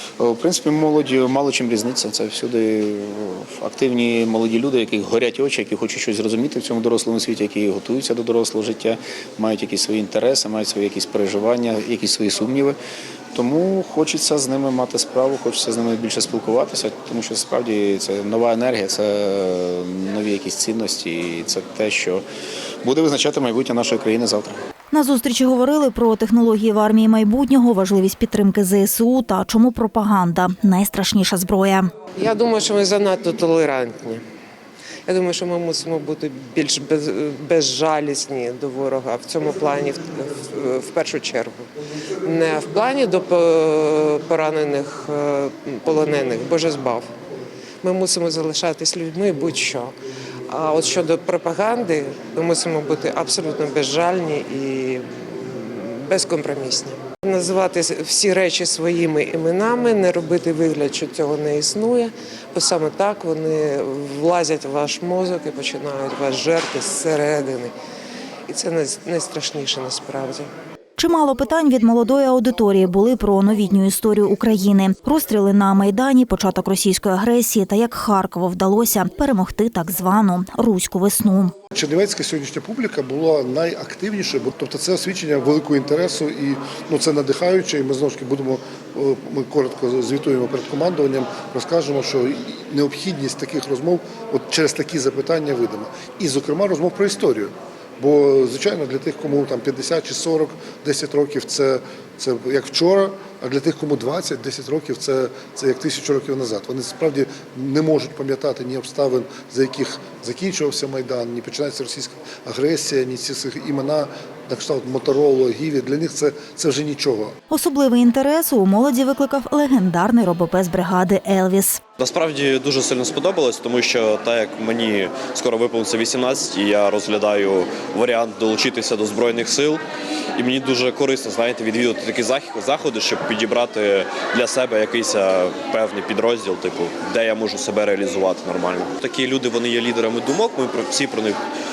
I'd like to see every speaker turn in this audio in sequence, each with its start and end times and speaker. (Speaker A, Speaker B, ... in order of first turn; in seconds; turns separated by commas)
Speaker A: 0.2-12.8, Speaker A: 13.3-22.2, Speaker A: 22.8-24.6, Speaker B: 24.9-31.9, Speaker C: 32.2-34.2, Speaker C: 35.0-41.6, Speaker C: 42.2-47.1, Speaker C: 47.8-49.9, Speaker C: 50.5-67.7, Speaker C: 68.5-70.5, Speaker B: 71.0-81.5, Speaker D: 81.7-117.3, Speaker B: 117.5-121.8, Speaker E: 122.0-129.8, Speaker E: 130.3-141.4